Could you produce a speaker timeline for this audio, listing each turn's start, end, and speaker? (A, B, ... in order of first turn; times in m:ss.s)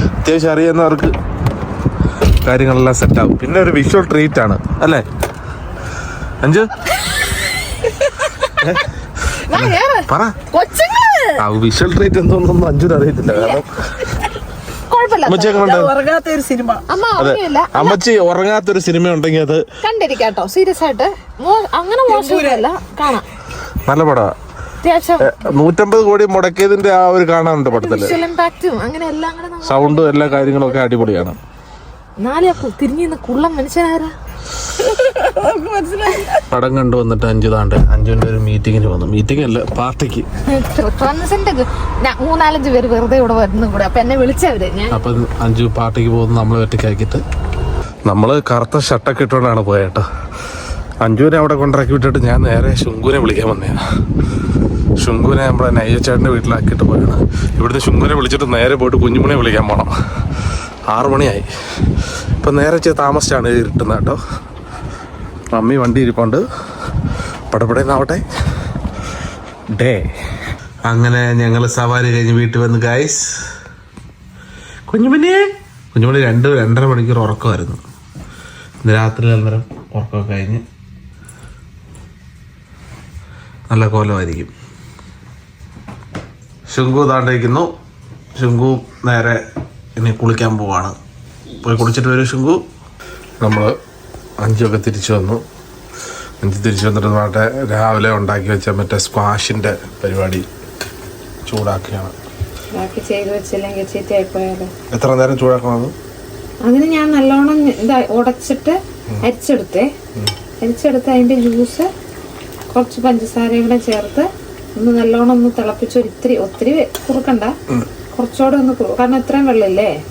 0:00.2-0:01.1 A
0:02.4-0:05.0 A
0:06.4-0:06.7 A
0:07.0-0:07.3 B
0:08.5-0:08.8 B
0:08.6-0:08.9 A
0:09.5-0:10.4 A
0:09.5-0:11.3 B
0:11.4-0:14.0 A
0:13.3-0:13.6 B
0:14.9-0:15.7 B
0:15.2-0:15.9 A
0:15.6-0:16.8 C
0:16.9-0:18.0 B
0:17.2-0:19.6 A
0:19.8-0:23.3 B
0:22.1-0:22.6 C
0:23.8-0:24.3 A
0:24.8-0:25.4 B
0:25.2-0:28.2 A
0:27.7-0:30.9 B
0:29.6-0:31.4 A
0:32.2-0:34.1 B
0:35.0-0:36.4 C
0:36.5-0:40.2 A
0:40.5-0:45.1 B
0:44.9-0:47.2 A
0:48.1-0:50.0 A
0:51.0-0:53.8 A
0:55.0-0:59.9 A
1:00.9-1:01.5 A
1:02.4-1:04.2 A
1:05.5-1:06.4 A
1:07.5-1:08.2 A
1:09.7-1:10.1 A
1:10.8-1:13.3 A
1:14.9-1:17.8 A
1:18.8-1:20.6 A
1:23.7-1:24.5 A
1:26.7-1:27.7 A
1:28.4-1:29.4 A
1:30.0-1:31.0 A
1:31.6-1:32.6 A
1:33.4-1:33.7 A
1:34.4-1:35.4 A
1:36.4-1:40.4 A
1:41.4-1:42.1 A
1:42.7-1:44.7 B
1:44.9-1:45.9 A
1:46.6-1:49.9 B
1:50.6-1:51.9 B
1:52.7-1:57.5 B
1:58.1-1:59.9 B